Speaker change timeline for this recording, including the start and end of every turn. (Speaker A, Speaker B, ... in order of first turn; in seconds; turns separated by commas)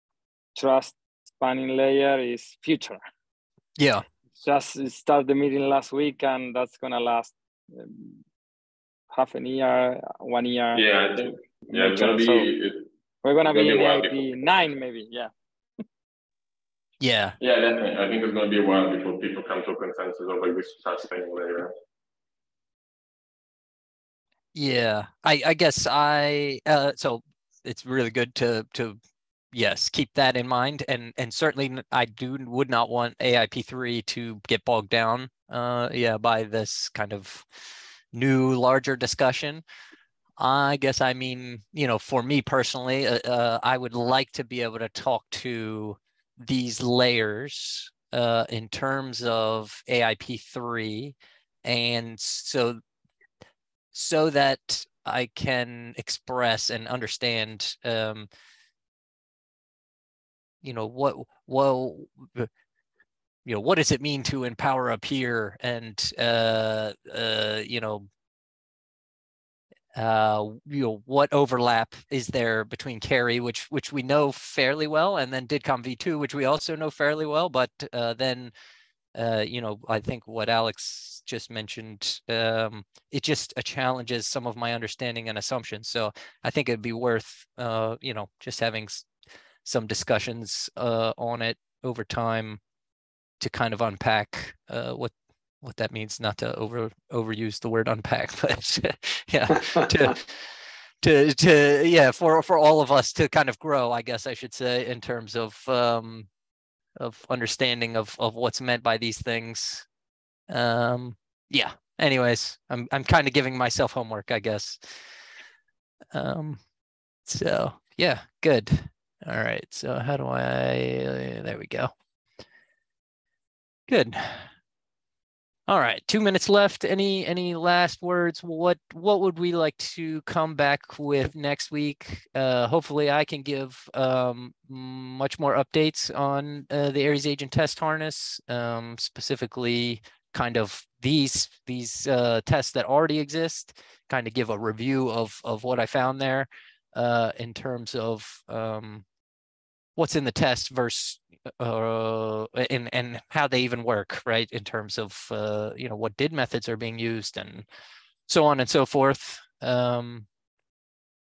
Speaker A: 0.6-3.0, Speaker B: 3.8-4.0, Speaker A: 4.4-8.2, Speaker A: 9.1-10.8, Speaker C: 10.8-12.9, Speaker A: 11.7-12.5, Speaker A: 13.2-15.3, Speaker C: 13.5-14.4, Speaker B: 17.0-17.4, Speaker C: 17.4-21.8, Speaker B: 24.5-29.0, Speaker B: 29.5-39.6, Speaker B: 40.4-52.8, Speaker B: 53.9-58.3, Speaker B: 60.6-62.5, Speaker B: 63.5-68.1, Speaker B: 70.0-78.5, Speaker B: 79.2-89.1, Speaker B: 89.7-92.6, Speaker B: 93.4-106.3, Speaker B: 107.0-109.9, Speaker B: 110.5-115.0, Speaker B: 116.1-116.6, Speaker B: 117.2-121.9, Speaker B: 123.9-124.5, Speaker B: 125.7-149.1, Speaker B: 150.0-157.7, Speaker B: 158.3-160.3